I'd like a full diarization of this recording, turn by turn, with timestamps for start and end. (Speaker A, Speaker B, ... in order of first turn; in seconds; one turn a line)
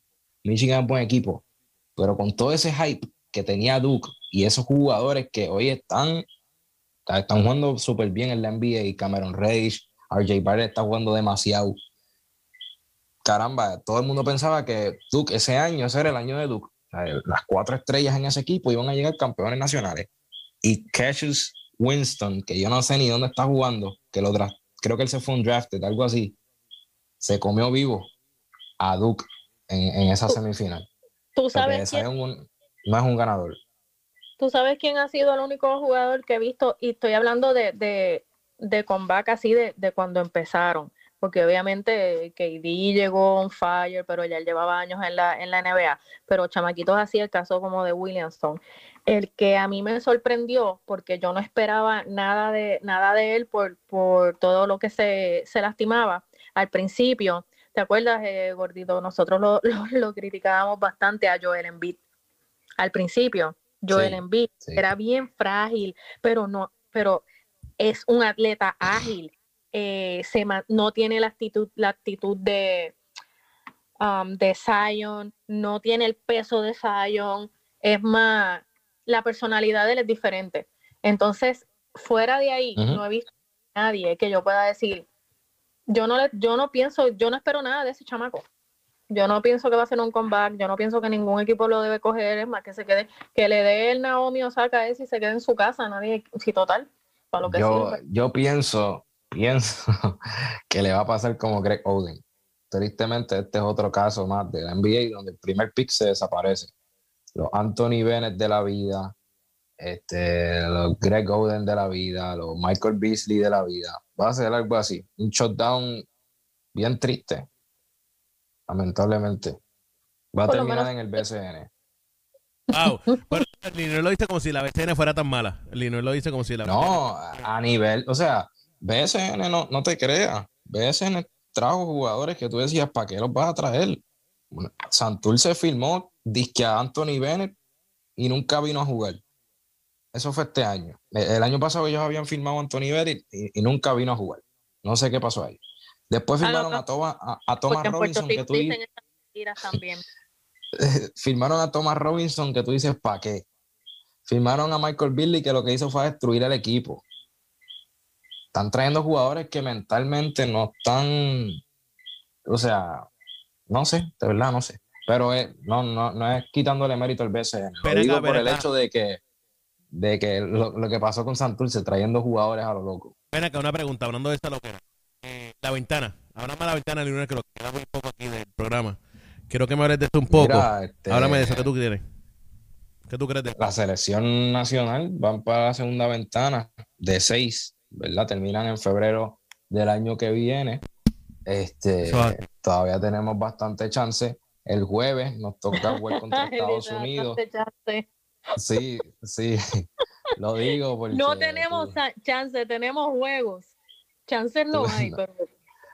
Speaker A: 0.4-1.4
Speaker A: 2.0-6.2
Speaker A: 7.1-11.8
Speaker A: 13.2-20.1
Speaker A: 20.6-26.4
Speaker A: 27.2-28.1
Speaker A: 28.8-30.9
Speaker B: 31.4-32.0
Speaker A: 31.5-33.6
Speaker B: 34.4-62.0
Speaker B: 62.8-67.3
Speaker A: 63.9-64.9
Speaker B: 67.8-73.0
Speaker B: 74.0-85.0
Speaker A: 82.8-83.0
Speaker B: 85.9-88.5
Speaker B: 89.1-98.0
Speaker A: 97.5-100.2
Speaker A: 100.7-106.7
Speaker A: 107.3-109.1
Speaker A: 109.8-116.0
Speaker A: 116.7-117.5
Speaker A: 118.7-119.6
Speaker A: 120.3-121.7
Speaker B: 120.5-121.2
Speaker B: 122.7-123.4
Speaker C: 122.7-126.9
Speaker A: 126.6-137.6
Speaker A: 138.2-139.2
Speaker A: 140.1-148.8
Speaker B: 146.4-146.8
Speaker B: 147.7-150.1
Speaker A: 150.8-153.4
Speaker A: 154.3-157.0
Speaker A: 158.5-161.6
Speaker A: 162.4-163.1
Speaker A: 163.7-169.2
Speaker C: 167.8-168.6
Speaker A: 169.9-173.1
Speaker C: 173.3-179.0
Speaker C: 179.5-182.0
Speaker A: 180.3-181.7
Speaker C: 183.1-183.6
Speaker A: 183.6-190.8
Speaker A: 191.4-197.4
Speaker C: 192.0-192.4
Speaker B: 195.7-198.1
Speaker A: 198.6-199.6
Speaker A: 200.4-202.0
Speaker B: 201.1-203.7
Speaker B: 204.3-205.5
Speaker A: 204.7-205.2